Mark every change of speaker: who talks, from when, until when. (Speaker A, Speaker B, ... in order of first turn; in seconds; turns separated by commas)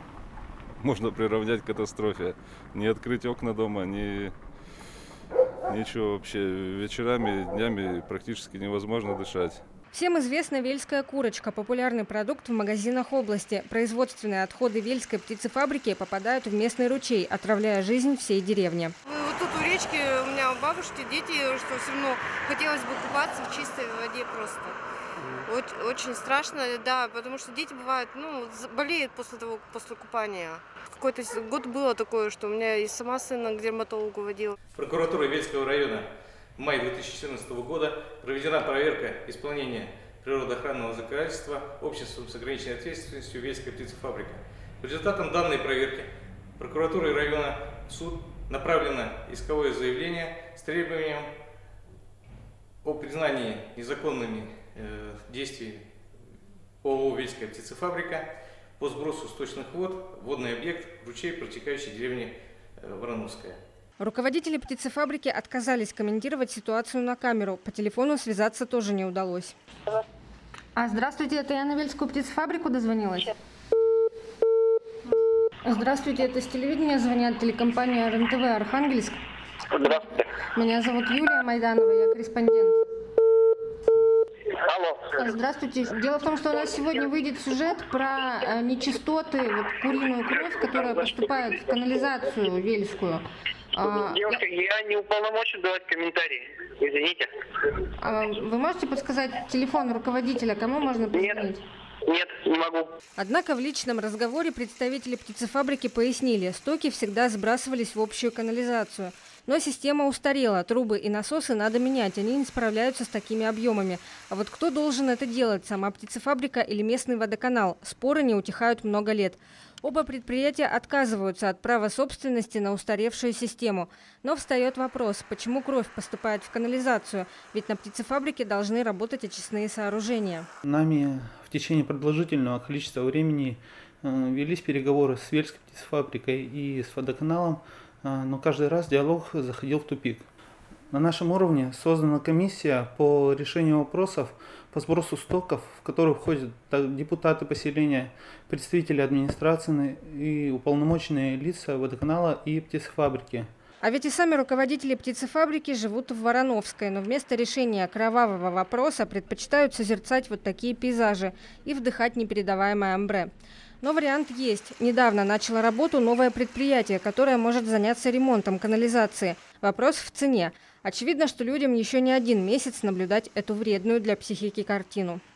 Speaker A: 0.8-4.3, Speaker A: 5.7-9.6, Speaker B: 9.9-18.9, Speaker C: 19.1-24.8, Speaker C: 25.4-34.5, Speaker D: 34.7-51.3, Speaker D: 52.8-55.9, Speaker D: 56.8-63.6, Speaker B: 64.0-69.5, Speaker B: 70.8-73.3, Speaker B: 75.6-79.2, Speaker E: 79.7-80.2, Speaker B: 79.8-82.8, Speaker E: 84.5-85.1, Speaker B: 85.1-94.4, Speaker E: 93.9-97.3, Speaker B: 98.0-101.6, Speaker E: 101.1-101.4, Speaker E: 102.0-102.9, Speaker B: 103.2-130.5, Speaker F: 130.6-140.3, Speaker F: 140.9-153.5, Speaker B: 153.8-163.3, Speaker B: 163.8-175.2